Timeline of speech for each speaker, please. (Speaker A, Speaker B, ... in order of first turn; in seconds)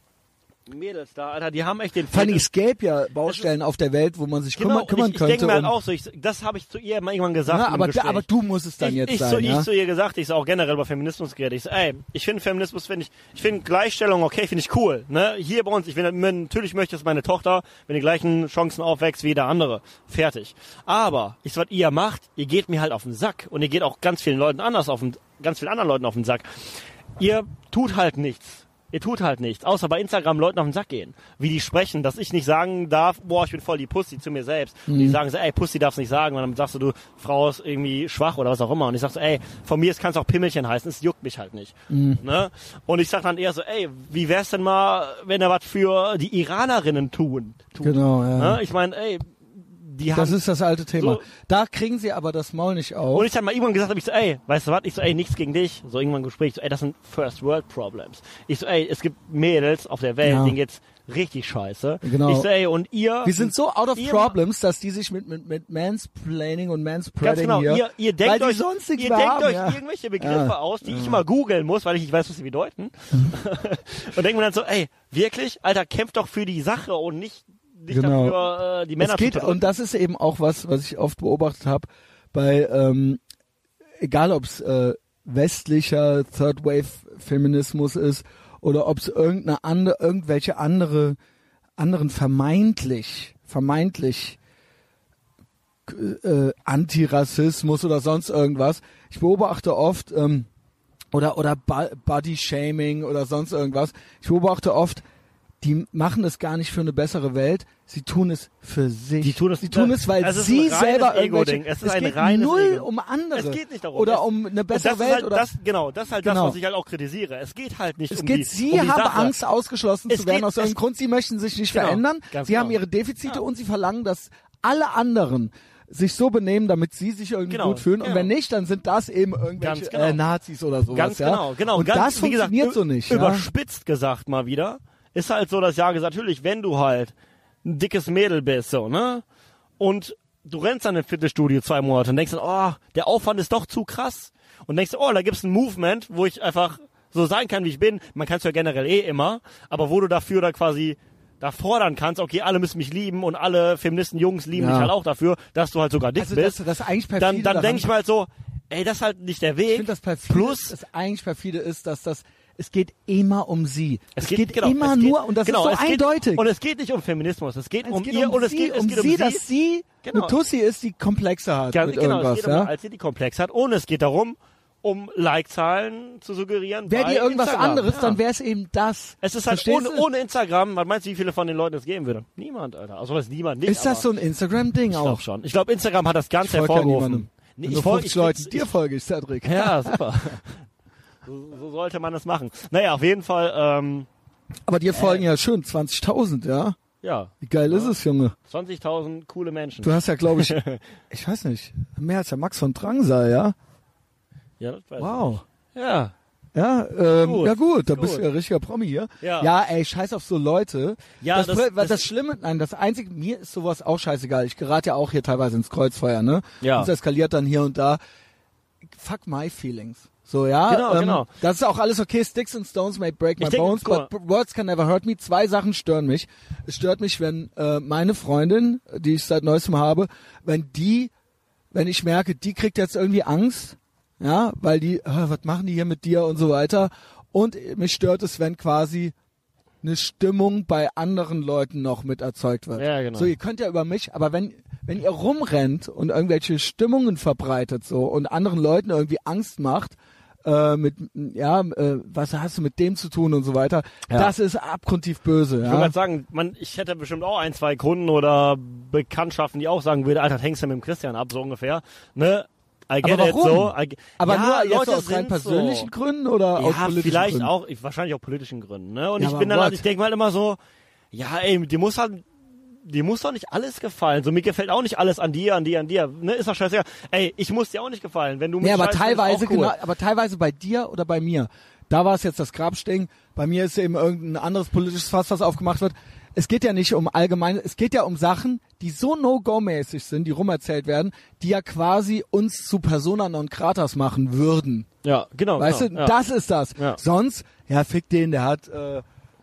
Speaker A: 0.7-2.5, 4.6-8.3, 8.8-50.4, 50.9-51.3, 53.1-64.4, 67.2-79.7, 109.2-119.4, 120.1-120.8, 121.7-123.4, 127.5-128.3, 129.6-130.2, 130.9-137.1, 137.6-139.2, 139.8-156.6, 157.2-160.8, 164.2-169.4, 170.0-170.3, 171.7-178.2, 179.2-184.1, 184.9-188.7, 189.4-190.5, 191.2-194.1, 194.9-195.2, 197.0-197.9, 198.5-200.8, 204.6-206.1, 207.2-208.3, 209.2-209.5, 211.2-212.1, 216.6-216.9, 220.7-221.3, 223.4-224.1, 242.8-243.3, 254.1-254.3, 255.6-265.9, 266.6-270.6, 271.1-272.3, 272.8-279.8, 295.0-296.2
Speaker B: 2.1-5.7, 7.5-9.7, 34.9-35.2, 41.9-42.2, 47.8-48.6, 50.1-53.3, 60.2-60.6, 62.0-62.5, 63.2-71.2, 77.9-78.5, 79.0-83.2, 84.0-91.2, 91.8-94.4, 95.9-100.5, 101.1-105.0, 105.6-115.5, 116.2-116.6, 118.1-133.5, 154.6-154.9, 156.2-157.9, 159.7-166.4, 167.8-172.7, 176.9-180.1, 183.7-185.2, 186.4-190.0, 194.7-196.8, 197.4-198.3, 199.8-200.6, 201.1-203.6, 205.0-205.4, 206.5-218.0, 218.9-231.1, 231.7-239.1, 239.8-255.9, 263.0-267.5, 269.2-269.9, 278.6-294.9, 295.6-299.0